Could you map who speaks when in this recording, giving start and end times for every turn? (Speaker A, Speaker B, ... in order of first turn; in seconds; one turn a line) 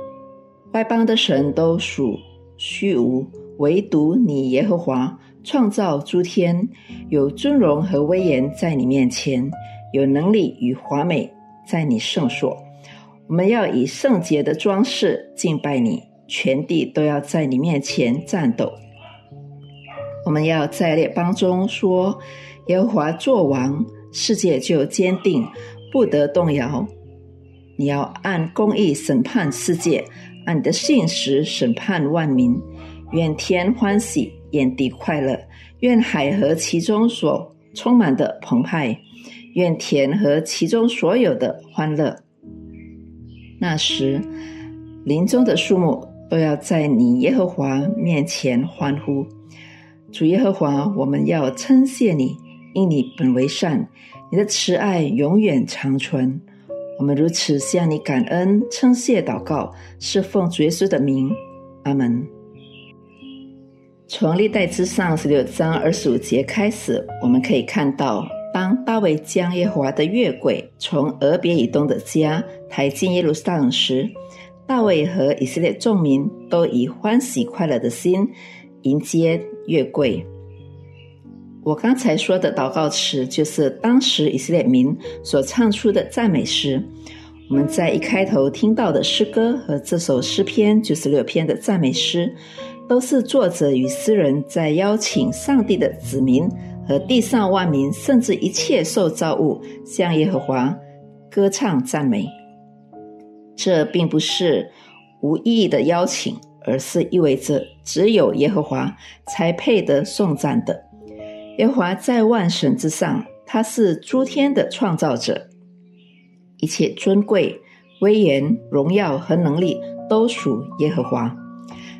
Speaker A: 0.7-12.6
Speaker A: 13.3-18.8
Speaker A: 20.2-26.9
Speaker A: 27.8-39.0
Speaker A: 39.5-42.2
Speaker A: 43.6-44.3
Speaker A: 45.0-49.3
Speaker A: 50.1-56.4
Speaker A: 57.0-62.3
Speaker A: 64.1-74.2
Speaker A: 74.7-80.3
Speaker A: 81.6-86.9
Speaker A: 87.5-92.4
Speaker A: 92.9-102.3
Speaker A: 103.5-110.8
Speaker A: 111.6-115.5
Speaker A: 116.6-121.4